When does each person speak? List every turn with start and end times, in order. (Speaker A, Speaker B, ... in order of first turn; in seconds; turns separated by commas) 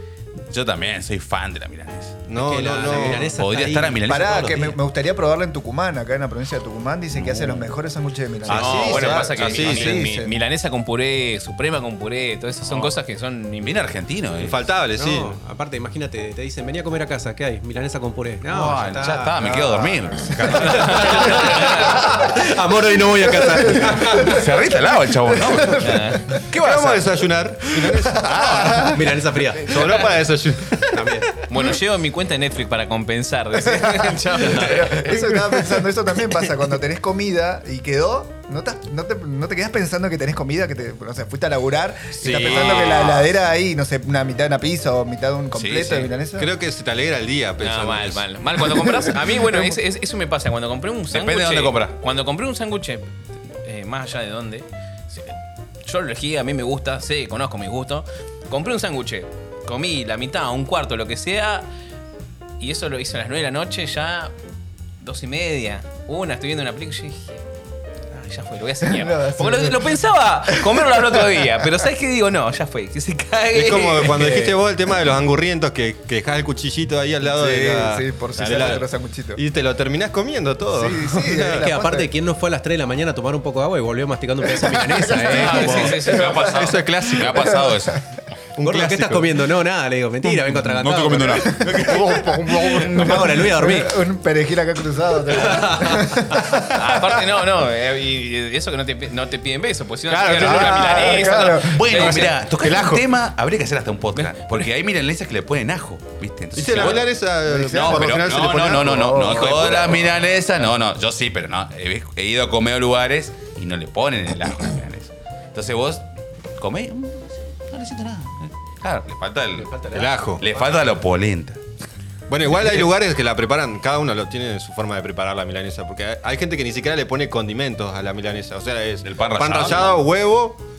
Speaker A: 0.5-2.3, Speaker B: 2.3-3.3, Speaker C: 2.3-4.4, Speaker A: 3.2-4.7, Speaker D: 4.0-10.3, Speaker A: 7.1-7.7, Speaker B: 8.5-10.0, Speaker E: 8.5-13.7, Speaker A: 8.7-9.8, Speaker A: 12.7-12.9, Speaker A: 13.6-14.6, Speaker B: 14.4-15.3, Speaker C: 14.9-24.4, Speaker A: 18.4-21.9, Speaker D: 19.6-20.5, Speaker E: 20.6-22.0, Speaker D: 23.0-26.4, Speaker A: 24.0-29.0, Speaker E: 25.8-26.3, Speaker B: 26.5-28.8, Speaker D: 27.9-29.1, Speaker C: 28.8-29.9, Speaker B: 29.6-30.9, Speaker A: 29.7-30.2, Speaker C: 30.8-31.3, Speaker E: 31.5-35.2, Speaker D: 33.6-46.5, Speaker B: 42.2-43.2, Speaker E: 42.5-43.2, Speaker A: 45.5-46.0, Speaker B: 46.4-48.2, Speaker E: 47.6-53.0, Speaker A: 51.1-52.0, Speaker E: 53.6-55.3, Speaker E: 55.8-61.7, Speaker E: 62.6-64.3, Speaker E: 65.0-67.4, Speaker E: 68.1-74.5, Speaker D: 68.8-69.9, Speaker D: 70.5-71.8, Speaker B: 73.5-78.8, Speaker D: 77.2-79.4, Speaker E: 78.3-78.8, Speaker B: 79.3-81.7, Speaker D: 80.7-82.1, Speaker C: 81.5-86.0, Speaker D: 84.5-87.9, Speaker E: 85.3-86.4, Speaker A: 85.3-88.0, Speaker B: 85.8-87.7, Speaker B: 88.5-89.3, Speaker C: 88.6-94.0, Speaker A: 90.3-93.3, Speaker D: 91.3-97.2, Speaker C: 95.5-96.0, Speaker E: 96.6-102.3, Speaker B: 100.1-101.3, Speaker D: 100.3-103.0, Speaker A: 101.6-107.1, Speaker B: 106.5-110.0, Speaker D: 107.5-109.9, Speaker A: 107.7-116.0, Speaker A: 116.6-119.7, Speaker C: 119.5-120.7, Speaker B: 119.9-120.4, Speaker A: 120.4-121.6, Speaker B: 122.3-130.6, Speaker A: 129.0-130.1